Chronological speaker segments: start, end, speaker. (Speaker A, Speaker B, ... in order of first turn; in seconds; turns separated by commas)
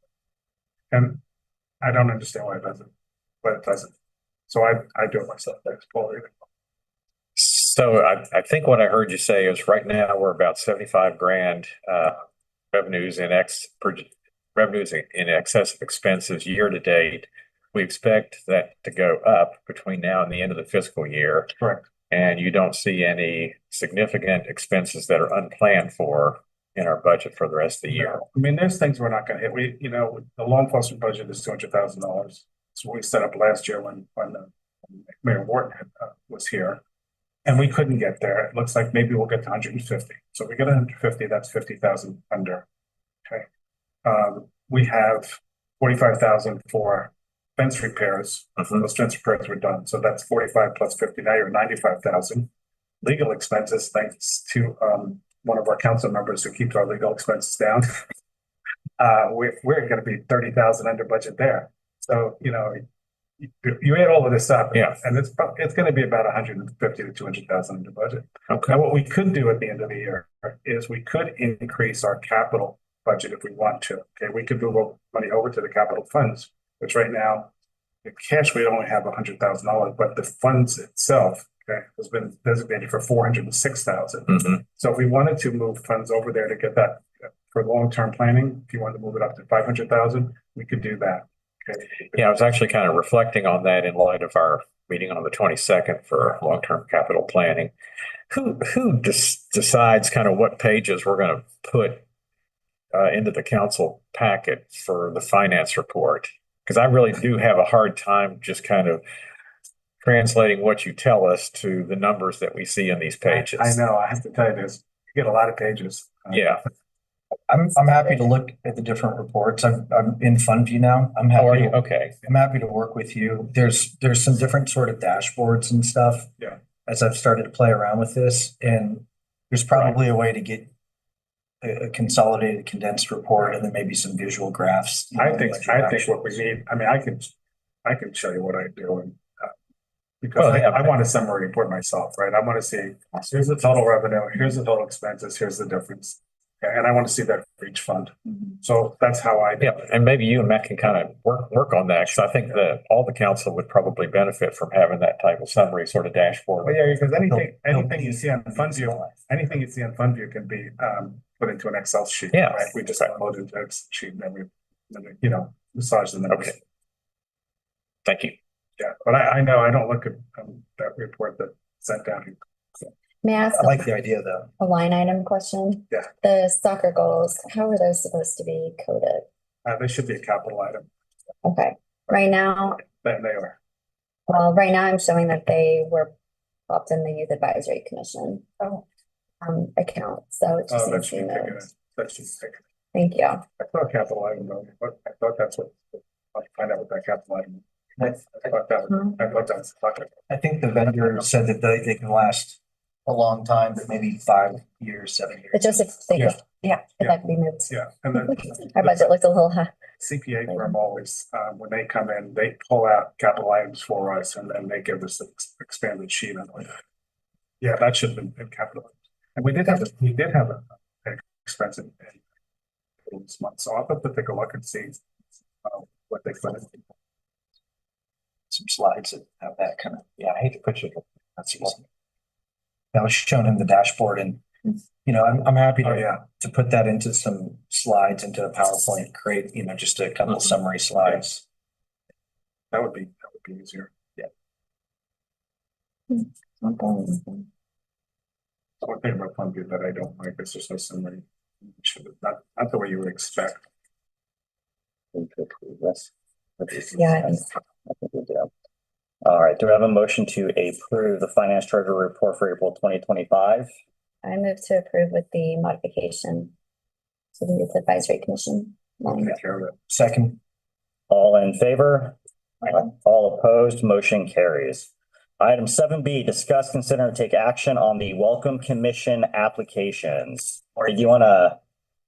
Speaker A: 0.9-1.2, Speaker A: 1.8-2.9, Speaker A: 3.4-3.9, Speaker A: 4.5-6.3, Speaker B: 7.4-12.2, Speaker B: 12.7-21.5, Speaker A: 21.6-21.9, Speaker B: 22.1-28.2, Speaker A: 27.9-36.8, Speaker A: 37.4-42.6, Speaker A: 44.0-52.5, Speaker A: 53.0-58.0, Speaker A: 59.0-62.8, Speaker A: 63.4-77.5, Speaker B: 68.5-68.8, Speaker A: 78.0-92.0, Speaker B: 92.1-97.7, Speaker B: 98.3-102.0, Speaker B: 102.9-109.0, Speaker B: 110.0-113.8, Speaker A: 113.2-116.6, Speaker B: 116.3-116.6, Speaker C: 117.5-126.3, Speaker B: 121.3-122.2, Speaker C: 126.8-130.7, Speaker C: 131.6-136.2, Speaker A: 135.1-137.3, Speaker A: 137.8-139.5, Speaker A: 140.2-149.8, Speaker B: 140.3-140.9, Speaker B: 149.6-157.0, Speaker A: 156.6-166.6, Speaker C: 157.3-159.3, Speaker B: 162.3-163.1, Speaker B: 166.3-166.5, Speaker B: 168.0-168.3, Speaker A: 168.8-172.4, Speaker D: 173.2-173.9, Speaker C: 173.5-174.5, Speaker D: 174.6-179.2, Speaker A: 179.6-180.9, Speaker D: 181.4-182.9, Speaker A: 182.8-183.6, Speaker D: 184.3-186.1, Speaker D: 186.7-188.7, Speaker D: 189.4-191.7, Speaker A: 190.7-192.6, Speaker D: 192.9-193.4, Speaker A: 193.6-200.1, Speaker C: 200.3-206.2, Speaker D: 205.5-209.9, Speaker A: 207.0-209.1, Speaker A: 210.0-216.7, Speaker D: 210.5-210.8, Speaker A: 217.6-222.2, Speaker A: 223.0-225.0, Speaker A: 225.6-226.8, Speaker C: 228.5-230.3, Speaker B: 230.2-231.0, Speaker C: 231.4-231.8, Speaker C: 232.9-234.4, Speaker C: 235.0-241.4, Speaker A: 235.8-236.2, Speaker A: 242.7-243.9, Speaker D: 246.1-247.5, Speaker A: 248.8-253.7, Speaker E: 255.1-258.5, Speaker D: 256.9-257.5, Speaker E: 259.2-263.7, Speaker D: 264.2-266.5, Speaker D: 267.4-269.4, Speaker A: 269.2-269.7, Speaker C: 269.9-270.4, Speaker E: 271.1-281.6